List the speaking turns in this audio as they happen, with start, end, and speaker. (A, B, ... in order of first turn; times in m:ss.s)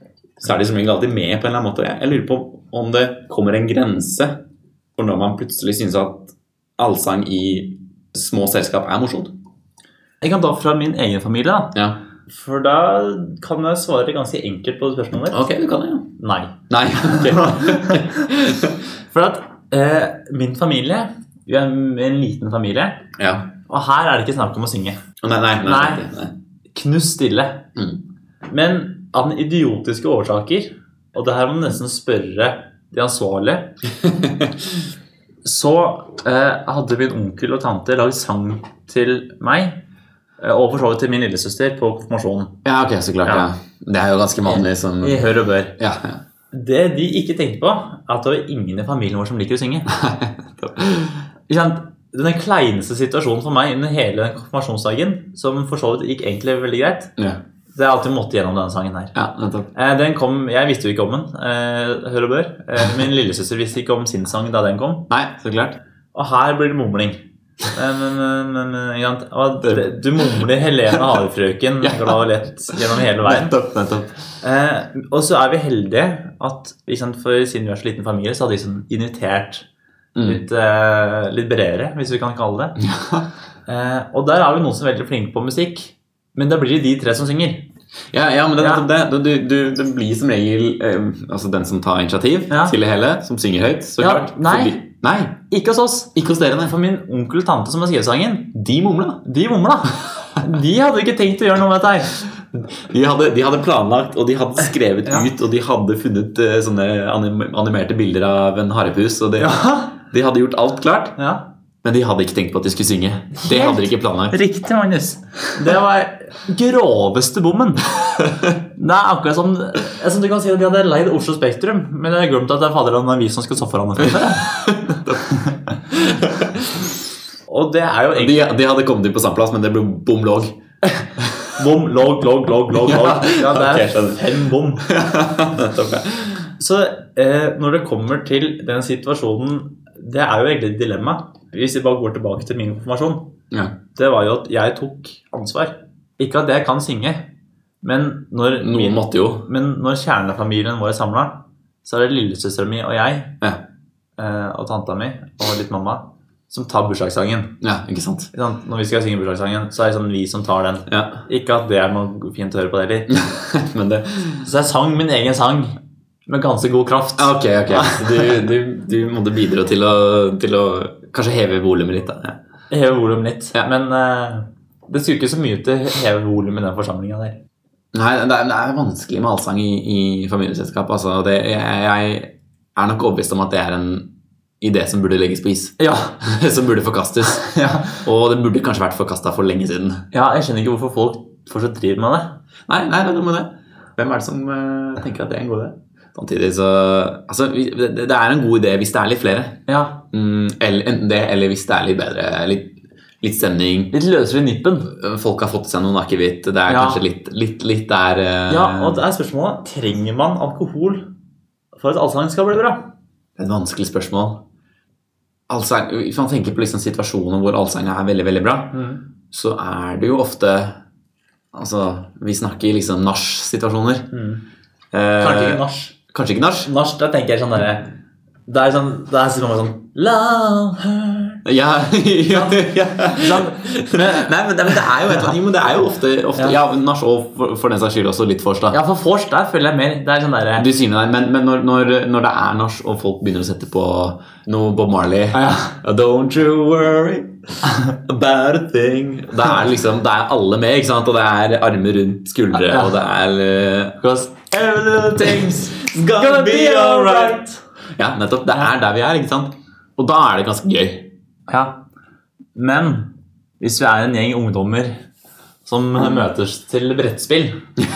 0:00.4-0:04.4 A
0:05.0-0:09.3 A
0:10.2-0:11.7 B
0:11.7-0:12.0 A
0:12.3-0:15.4 B
0:15.3-0:16.1 A
0:16.2-0:18.2 B
0:16.7-0:18.8 A
0:19.1-0:23.0 B
0:23.2-0:23.5 A
0:23.7-0:25.0 B
0:25.2-0:26.3 A
0:25.6-0:26.1 B
0:26.7-0:27.7 B
0:28.5-0:33.7 B
0:34.0-0:34.6 A
0:35.4-0:39.8 B
0:40.4-0:42.6 B
0:42.6-0:45.2 A
0:44.4-0:45.7 B
0:45.8-0:46.2 A
0:46.5-0:49.9 B
0:49.9-0:51.2 A
0:51.5-0:57.1 B
0:57.7-0:59.1 B
0:59.1-0:59.7 A
0:59.7-1:05.0 B
1:05.1-1:05.8 A
1:06.1-1:07.2 B
1:07.7-1:13.5 B
1:11.8-1:12.2 A
1:12.7-1:14.1 A
1:14.4-1:19.6 B
1:20.1-1:20.4 A
1:20.2-1:22.8 B
1:22.8-1:23.2 A
1:23.7-1:27.7 B
1:28.1-1:35.4 A
1:28.6-1:28.8 B
1:32.5-1:32.8 B
1:34.0-1:34.8 B
1:35.5-1:38.6 B
1:36.2-1:36.7 A
1:38.6-1:39.2 A
1:39.2-1:42.2 B
1:42.6-1:51.2 A
1:49.4-1:49.9 B
1:51.2-1:51.4 B
1:51.8-1:54.4 A
1:53.4-1:57.9 B
1:58.2-1:58.5 A
1:58.6-2:05.5 B
2:04.2-2:06.8 A
2:07.5-2:08.5 B
2:08.1-2:10.6 A
2:10.9-2:14.9 B
2:11.2-2:11.6 A
2:12.7-2:16.4 A
2:16.6-2:23.3 B
2:23.5-2:23.8 A
2:23.9-2:27.3 B
2:27.8-2:33.4 B
2:28.6-2:29.5 A
2:34.2-2:37.6 B
2:37.6-2:38.3 A
2:38.3-2:43.1 B
2:40.9-2:41.2 A
2:43.1-2:44.4 A
2:44.4-2:48.4 B
2:47.2-2:52.4 A
2:52.7-2:57.4 B
2:57.9-3:04.1 A
3:04.6-3:10.1 A
3:05.8-3:06.2 B
3:07.3-3:08.0 B
3:10.1-3:12.4 B
3:12.7-3:23.9 A
3:19.7-3:20.0 B
3:23.9-3:24.9 B
3:24.9-3:29.0 A
3:26.7-3:27.0 B
3:28.5-3:31.1 B
3:31.7-3:32.8 B
3:33.4-3:34.4 A
3:35.5-3:40.8 A
3:38.7-3:39.0 B
3:41.5-3:44.1 A
3:44.1-3:44.4 B
3:44.9-3:46.7 A
3:45.2-3:45.9 B
3:46.6-3:47.9 B
3:48.5-3:51.4 B
3:51.4-3:58.8 A
3:52.3-3:55.3 B
3:58.7-4:00.7 B
4:00.6-4:14.0 A
4:05.3-4:05.7 B
4:12.5-4:12.9 B
4:14.0-4:17.6 B
4:15.1-4:17.4 A
4:18.0-4:21.1 A
4:21.5-4:21.8 B
4:22.5-4:25.0 B
4:25.6-4:27.6 B